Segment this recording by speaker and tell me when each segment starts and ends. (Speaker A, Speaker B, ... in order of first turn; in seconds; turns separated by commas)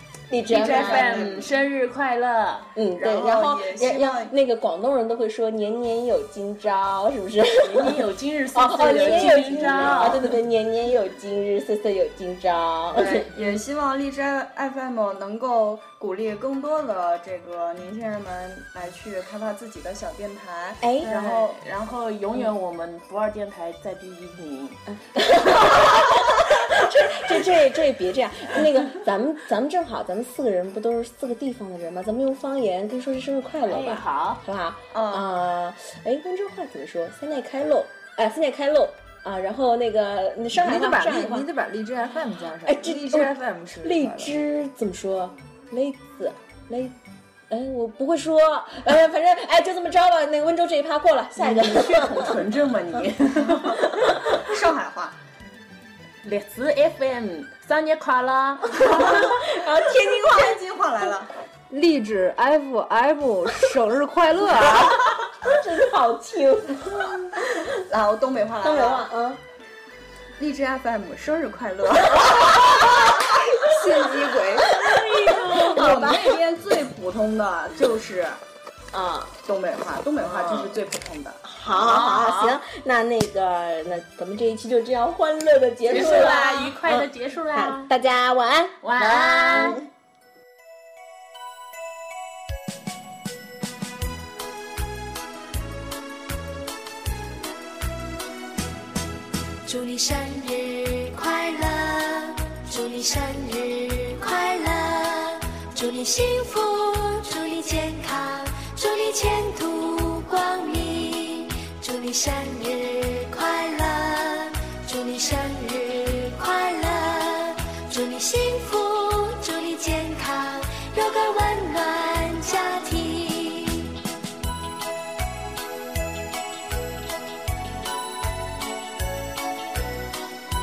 Speaker A: 0.3-1.4, Speaker B: 0.5-1.5, Speaker C: 0.5-2.7, Speaker A: 2.8-8.0, Speaker B: 2.9-4.3, Speaker C: 7.6-10.3, Speaker A: 8.5-13.3, Speaker B: 8.9-10.2, Speaker B: 12.9-21.6, Speaker A: 20.8-21.1, Speaker C: 21.0-24.8, Speaker A: 24.9-41.5, Speaker C: 33.6-34.4, Speaker B: 34.9-35.3, Speaker D: 40.5-44.3, Speaker A: 42.6-47.0, Speaker A: 47.5-52.4, Speaker C: 51.4-54.4, Speaker B: 54.4-55.2, Speaker C: 56.2-58.7, Speaker A: 58.7-60.6, Speaker B: 58.8-59.3, Speaker B: 60.2-61.3, Speaker D: 61.7-65.0, Speaker A: 65.4-67.6, Speaker B: 67.9-69.1, Speaker A: 68.6-69.4, Speaker B: 70.4-72.4, Speaker A: 72.2-73.3, Speaker D: 73.7-74.8, Speaker A: 74.6-76.4, Speaker B: 75.2-78.4, Speaker A: 78.9-79.3, Speaker B: 79.4-81.4, Speaker C: 80.2-80.8, Speaker A: 81.4-89.8, Speaker C: 81.7-82.6, Speaker C: 85.9-87.9, Speaker B: 85.9-86.5, Speaker C: 88.8-89.8, Speaker E: 99.7-124.0, Speaker A: 100.2-101.0, Speaker A: 101.8-102.3, Speaker A: 103.5-104.0, Speaker A: 104.8-105.3, Speaker A: 113.7-114.4